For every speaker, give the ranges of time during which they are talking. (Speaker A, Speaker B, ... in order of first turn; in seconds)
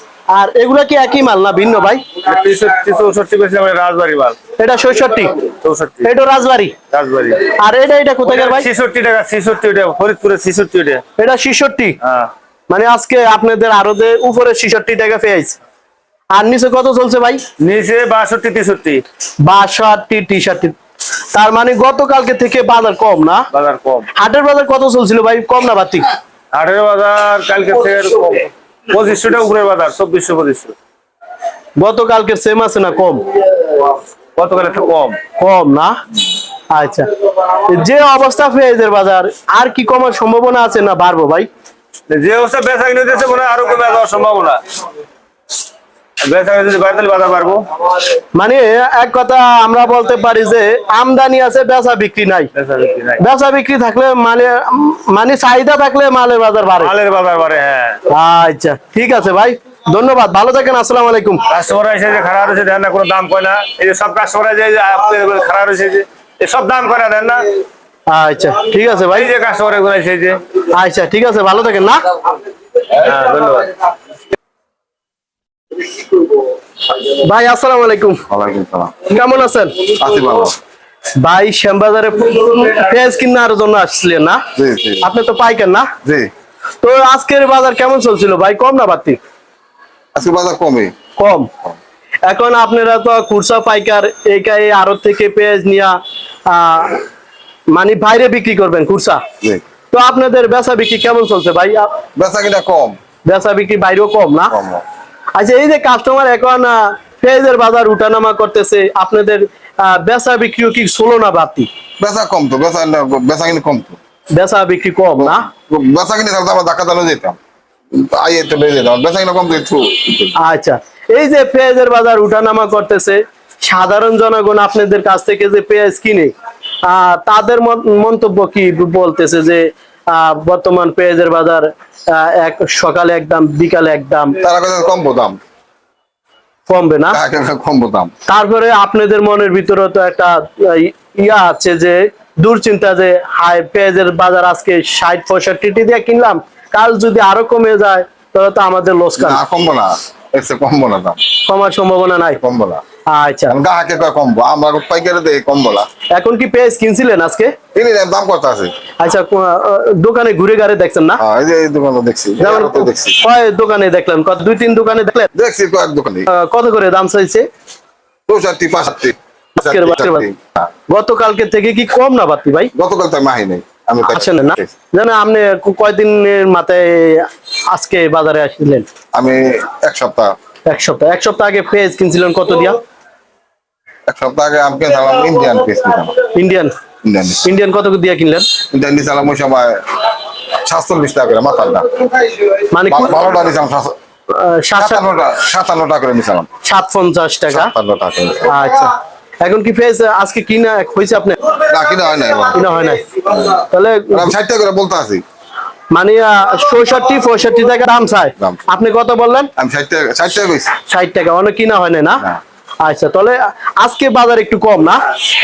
Speaker A: 0.3-2.0, 4.6-5.5, 6.0-6.8, 7.5-8.7, 11.2-12.0, 12.7-15.6, 16.3-17.4, 19.4-20.8, 21.3-23.5, 24.1-26.1, 31.8-33.2, 35.4-36.0, 36.7-41.5, 48.3-52.5, 53.2-56.9, 58.1-61.4, 68.1-69.3, 70.7-72.1, 76.9-78.2, 79.0-80.0, 81.2-84.4, 85.0-85.9, 86.8-89.2, 91.2-91.5, 92.2-97.0, 97.7-99.2, 99.9-102.0, 103.3-104.5, 105.4-111.7, 114.4-115.5, 120.4-126.3, 126.8-134.4, 136.7-137.2, 138.3-149.4, 151.4-152.4, 153.1-153.6, 156.2-157.5, 159.0-161.2, 162.4-165.3, 166.3-167.5, 169.6-170.3, 170.9-172.7, 174.0-178.9, 180.7-182.8, 186.3-186.7, 187.4-188.5, 192.7-193.3, 194.3-195.0, 196.6-197.7, 198.4-201.4, 202.5-204.3, 205.9-209.5, 210.9-212.3, 212.8-215.0
Speaker B: 2.2-4.4, 5.6-6.1, 6.9-7.5, 8.2-11.0, 12.0-12.3, 17.6-19.0, 23.5-24.1, 26.5-30.8, 33.8-35.2, 42.1-44.8, 46.2-47.7, 52.5-53.2, 56.8-58.0, 61.5-67.5, 69.1-70.4, 72.9-73.8
Speaker C: 78.3-79.1, 80.0-80.6, 84.5-85.1, 86.0-86.3, 90.2-90.9, 102.2-103.0, 104.5-104.8, 112.0-114.0, 115.2-117.4, 117.9-120.3, 134.4-135.4, 137.1-138.1, 149.2-151.2, 152.4-152.8, 153.5-155.9, 157.7-158.7, 161.2-163.2, 165.3-166.3, 168.3-170.7, 172.8-174.7, 179.1-180.3, 184.1-186.2, 187.0-187.5, 188.7-193.9, 194.8-196.5, 197.5-198.6, 201.5-203.5, 204.1-205.2, 208.4-208.7, 209.6-210.8